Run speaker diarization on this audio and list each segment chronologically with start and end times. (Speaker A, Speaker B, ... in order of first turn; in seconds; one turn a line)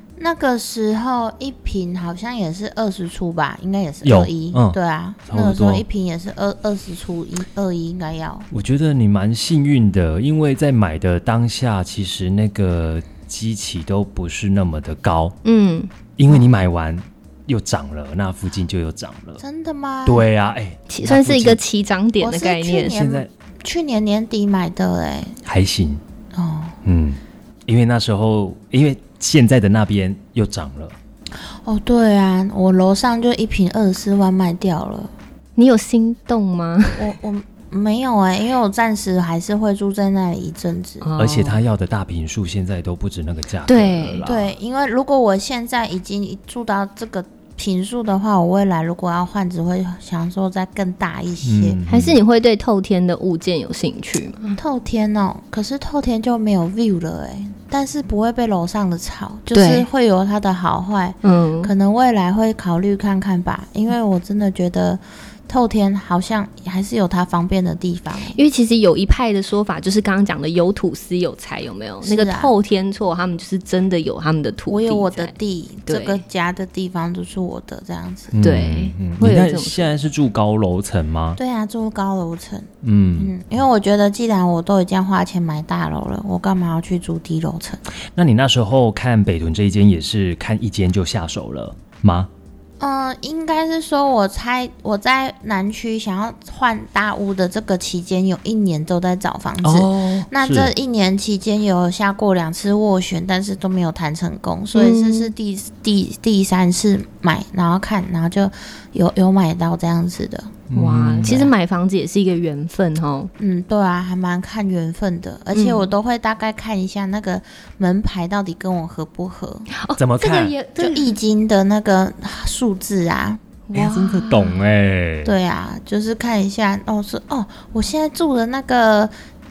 Speaker A: 0.2-8.5
Speaker B: 4.0-5.8
Speaker B: 8.5-15.3
Speaker C: 15.4-15.9
Speaker B: 16.2-19.4
Speaker A: 19.4-20.2
Speaker B: 20.0-21.6
Speaker C: 20.9-23.0
Speaker A: 22.2-25.4
Speaker B: 22.9-23.3
Speaker B: 25.4-26.0
Speaker A: 26.3-26.8
Speaker B: 26.8-30.9
Speaker A: 31.4-35.1
Speaker C: 35.5-37.1
Speaker A: 37.0-41.1
Speaker C: 41.0-41.6
Speaker B: 41.2-44.5
Speaker C: 43.7-44.3
Speaker A: 44.2-51.8
Speaker B: 51.4-52.2
Speaker C: 51.9-54.6
Speaker A: 54.5-68.4
Speaker C: 59.5-59.9
Speaker C: 61.2-61.7
Speaker C: 68.3-75.3
Speaker A: 72.0-72.5
Speaker A: 74.7-78.3
Speaker C: 75.9-76.2
Speaker B: 78.3-81.4
Speaker C: 78.4-79.9
Speaker A: 81.3-87.8
Speaker B: 82.8-83.3
Speaker B: 88.1-92.3
Speaker A: 92.8-110.5
Speaker B: 99.6-100.7
Speaker C: 104.7-105.3
Speaker B: 110.7-111.5
Speaker C: 110.7-113.3
Speaker A: 113.4-119.7
Speaker C: 115.5-115.9
Speaker C: 119.7-121.1
Speaker B: 120.0-120.5
Speaker A: 120.8-123.4
Speaker C: 123.7-124.6
Speaker B: 123.7-125.3
Speaker A: 125.2-129.1